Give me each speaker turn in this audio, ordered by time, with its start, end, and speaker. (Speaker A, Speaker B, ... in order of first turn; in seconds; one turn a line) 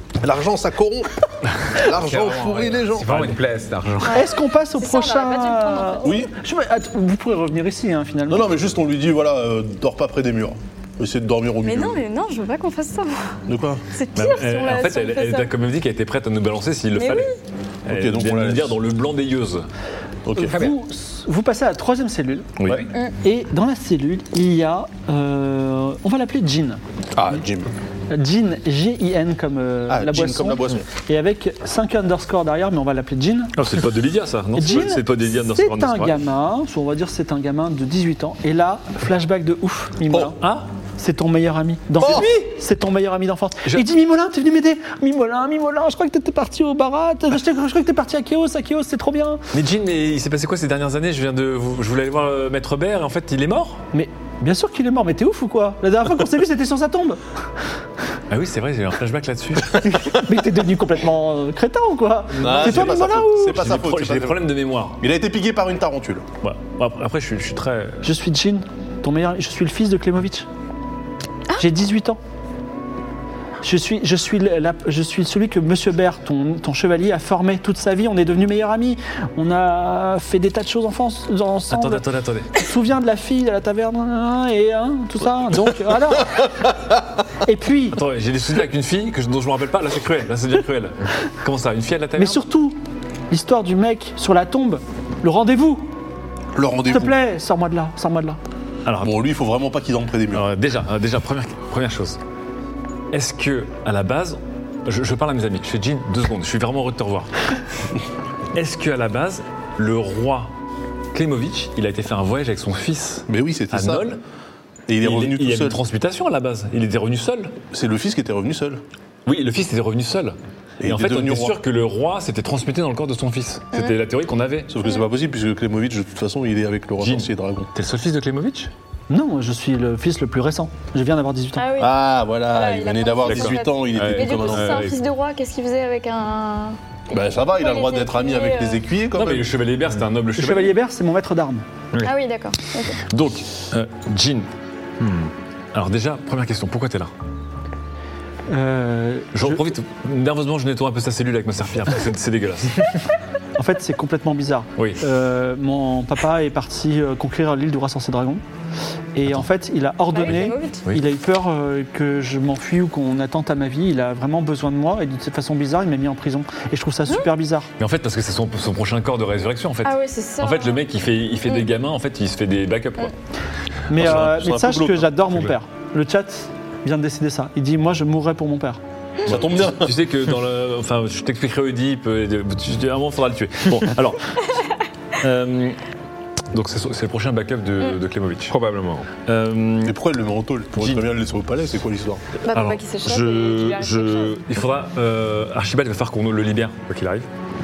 Speaker A: 0.2-3.3
Speaker B: 1.9-4.2
Speaker C: 4.0-6.2
Speaker D: 4.1-8.6
Speaker A: 6.0-6.3
Speaker A: 8.3-12.0
Speaker C: 11.6-13.3
Speaker A: 13.5-13.8
Speaker C: 13.9-15.5
Speaker E: 14.2-17.3
Speaker C: 16.9-17.4
Speaker E: 17.9-19.6
Speaker A: 17.9-18.8
Speaker A: 20.3-20.5
Speaker D: 20.4-22.6
Speaker B: 20.5-20.8
Speaker E: 22.6-22.9
Speaker D: 23.2-26.8
Speaker A: 27.1-27.7
Speaker D: 28.1-33.6
Speaker A: 29.9-30.9
Speaker E: 33.6-36.2
Speaker D: 34.5-49.4
Speaker A: 42.0-42.3
Speaker E: 49.5-53.8
Speaker D: 53.9-57.2
Speaker E: 58.3-59.8
Speaker D: 59.8-63.6
Speaker A: 62.4-66.2
Speaker E: 62.4-65.0
Speaker E: 66.4-68.0
Speaker D: 68.0-70.5
Speaker D: 71.6-72.2
Speaker D: 73.6-86.5
Speaker E: 81.7-82.6
Speaker D: 87.5-88.0
Speaker E: 87.9-92.4
Speaker D: 92.2-92.8
Speaker D: 93.3-95.9
Speaker A: 96.5-97.2
Speaker D: 96.9-98.4
Speaker E: 98.8-99.2
Speaker A: 99.0-100.4
Speaker E: 100.3-102.2
Speaker E: 103.1-107.3
Speaker E: 108.5-110.5
Speaker E: 111.1-114.2
Speaker A: 113.3-114.1
Speaker A: 114.9-115.8
Speaker E: 115.0-117.5
Speaker A: 117.7-118.8
Speaker E: 119.3-124.7
Speaker A: 120.8-121.6
Speaker A: 124.7-127.7
Speaker E: 127.0-128.7
Speaker D: 129.1-131.7
Speaker C: 131.6-132.0
Speaker A: 131.8-134.9
Speaker C: 132.5-138.8
Speaker E: 133.2-135.0
Speaker A: 137.1-139.5
Speaker E: 139.2-140.8
Speaker D: 140.4-141.7
Speaker C: 142.0-143.0
Speaker E: 143.1-147.1
Speaker D: 148.5-149.7
Speaker E: 149.3-153.0
Speaker D: 153.6-158.4
Speaker E: 154.8-155.0
Speaker D: 159.2-167.7
Speaker C: 160.1-160.9
Speaker E: 167.8-173.1
Speaker C: 169.8-170.8
Speaker D: 173.9-178.8
Speaker A: 173.9-175.1
Speaker E: 174.0-174.3
Speaker A: 179.2-180.0
Speaker E: 179.3-185.8
Speaker E: 186.5-188.5
Speaker B: 188.5-189.1
Speaker E: 189.2-190.0
Speaker A: 189.8-192.2
Speaker E: 190.8-191.1
Speaker C: 192.4-194.3
Speaker E: 192.5-197.3